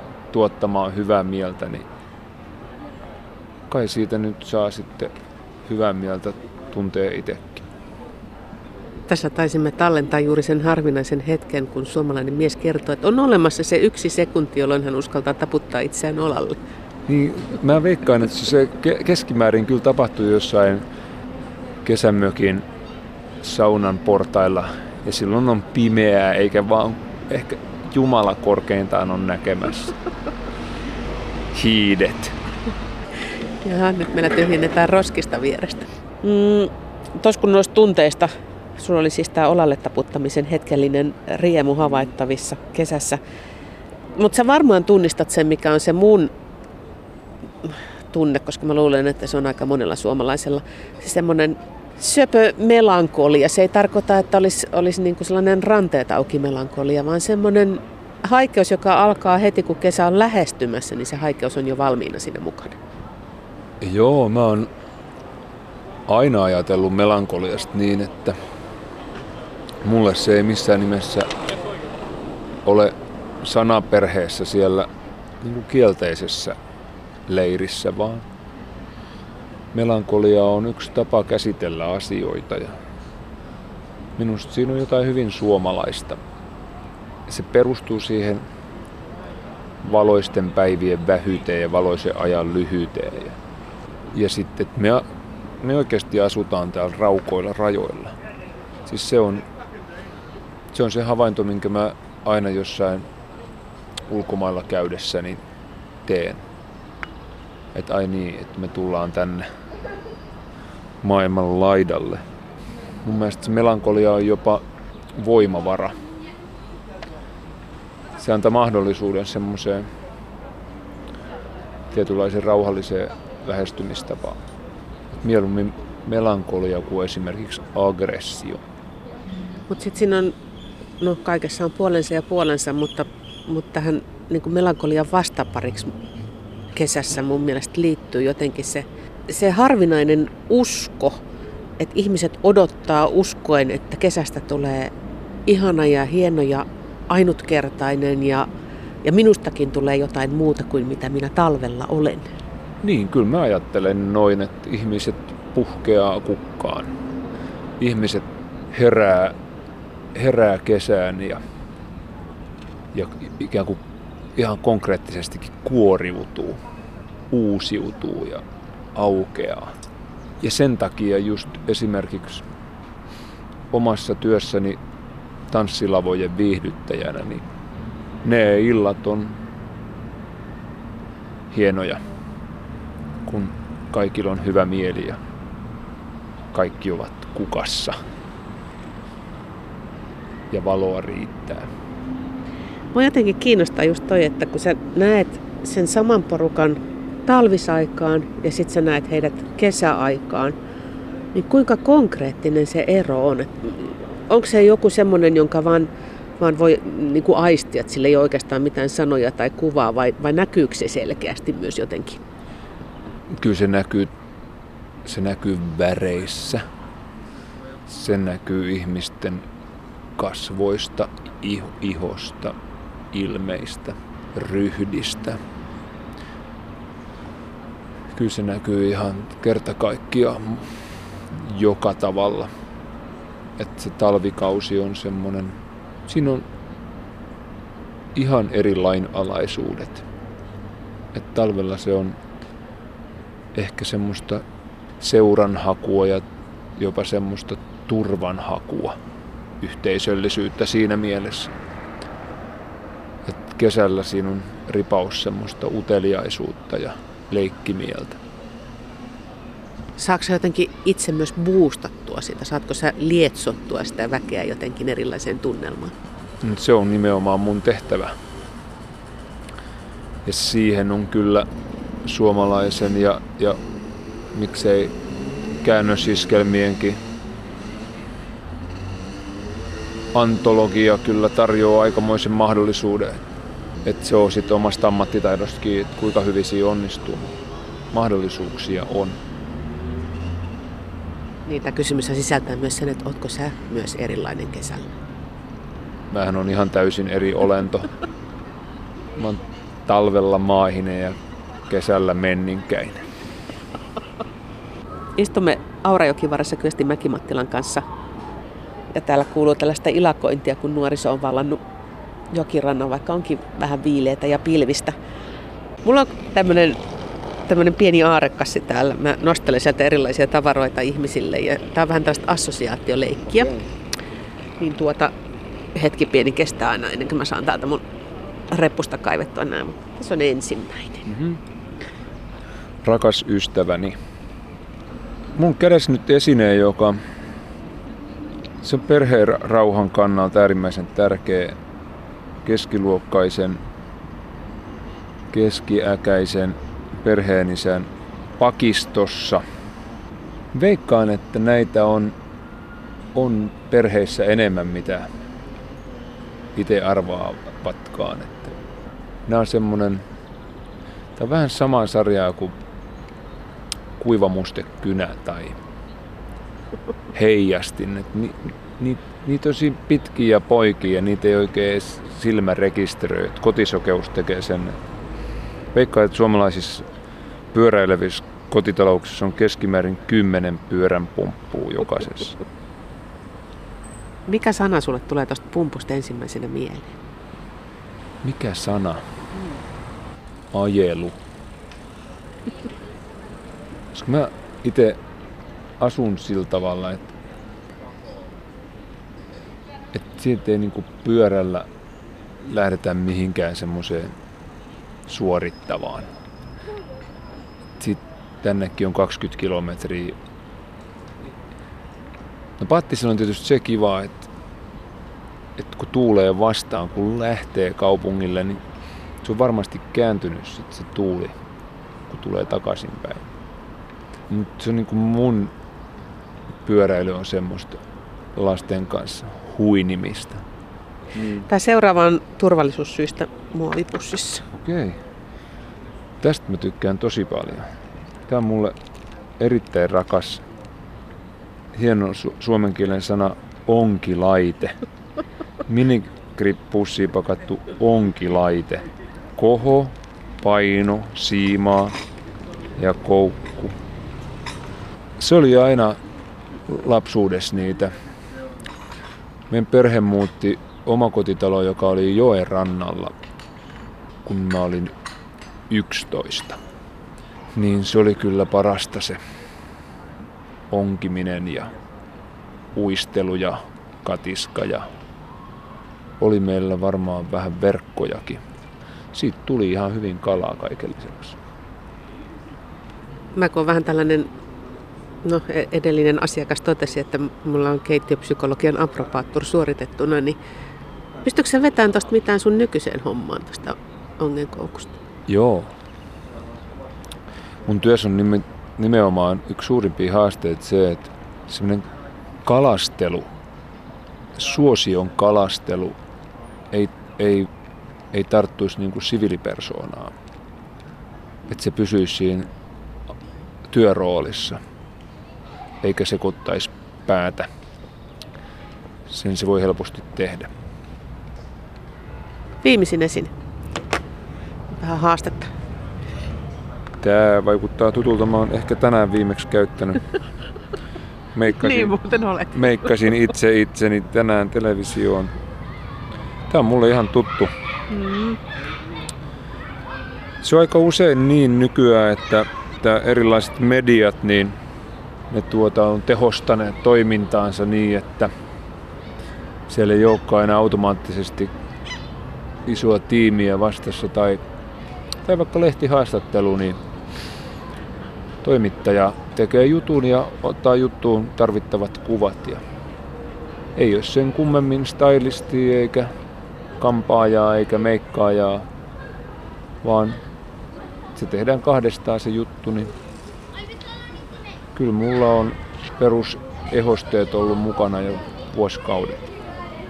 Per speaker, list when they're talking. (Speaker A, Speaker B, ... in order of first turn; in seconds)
Speaker A: 0.3-1.9, 3.7-5.1, 5.7-7.7, 17.1-20.8, 21.8-22.6, 23.4-30.0, 31.5-32.4, 63.8-64.7, 66.1-68.3, 69.8-71.3, 72.7-74.9, 75.4-76.6, 77.3-78.2, 79.7-82.7, 84.2-86.2, 87.3-88.4, 89.8-93.4, 94.1-95.0, 95.6-98.1, 98.9-99.5, 100.7-103.0, 104.1-105.4, 106.0-106.4, 107.7-109.5, 111.0-112.2, 113.0-114.6, 115.2-115.9, 118.2-119.9, 121.9-124.4, 125.1-128.6, 152.8-156.9, 157.8-159.3, 160.2-161.4, 162.9-163.8, 164.4-166.6, 167.3-168.4, 168.9-169.7, 170.4-172.4, 173.7-174.8, 175.5-177.4, 178.2-179.4, 181.5-182.1, 183.3-185.2, 186.5-188.0, 190.5-191.7, 213.4-214.1, 215.1-216.6, 217.9-219.4, 220.2-222.5, 223.1-225.4, 228.1-230.7, 231.3-232.5, 233.6-236.4, 238.2-240.1, 241.1-242.2, 243.6-244.4, 245.0-246.2, 246.8-249.0, 249.6-251.5, 253.2-258.2, 266.4-268.1, 270.2-271.5, 272.1-273.6, 274.3-274.9, 275.6-277.0, 280.1-283.2, 283.9-287.4, 287.9-289.2, 296.1-297.9, 299.2-301.2, 301.7-303.1, 331.1-331.4, 332.8-334.0, 335.4-337.0, 338.6-341.6, 342.4-343.6, 345.3-347.9, 348.4-349.4, 350.5-352.1, 353.1-355.1, 356.6-358.6, 359.3-360.0, 361.2-362.6, 364.0-365.6, 367.1-374.8, 375.7-376.9, 377.5-382.4, 388.2-389.0, 390.5-391.2, 393.9-395.0, 395.8-397.1, 399.9-401.7, 402.4-404.1, 405.1-406.1, 407.8-410.2, 412.6-414.3, 415.6-418.6, 419.2-421.3, 422.1-423.3, 424.3-425.5, 426.6-427.8, 428.4-430.4, 431.2-431.4, 434.5-435.0, 436.2-437.7, 438.3-438.7, 439.4-440.4, 441.7-444.7, 445.6-452.0, 452.8-453.8, 455.2-456.0, 456.7-457.9, 459.5-463.1, 464.2-464.9, 465.7-466.6, 467.6-469.2, 470.7-471.7, 472.8-474.9, 476.2-478.4, 479.1-481.4, 495.3-495.7, 497.7-501.8, 502.4-503.3, 504.4-506.0, 506.7-507.5, 508.1-510.1, 511.5-512.5, 513.7-514.6, 515.8-517.5, 519.1-520.5, 527.0-530.1, 531.4-532.0, 532.5-535.3, 536.5-537.5, 540.4-544.5, 545.3-548.3, 549.7-551.5, 552.7-554.4, 555.2-556.8, 558.4-562.6, 563.8-566.1, 566.8-568.6, 569.8-570.2, 571.1-572.9, 574.8-579.3
Speaker B: 9.1-16.6, 33.6-43.2, 44.2-46.3, 47.6-62.8, 129.7-130.3, 131.0-135.9, 136.8-141.2, 141.8-144.9, 145.5-148.5, 149.0-152.3, 192.9-200.6, 201.3-212.2, 260.0-265.9, 291.5-294.9, 305.2-307.8, 308.9-311.6, 312.3-314.9, 315.8-316.8, 317.5-323.6, 324.6-325.1, 325.8-327.8, 328.5-331.1, 384.3-387.0, 431.2-434.5, 483.4-484.3, 485.2-490.4, 491.2-495.0, 522.6-523.3, 524.7-525.5, 531.5-532.9, 537.9-538.4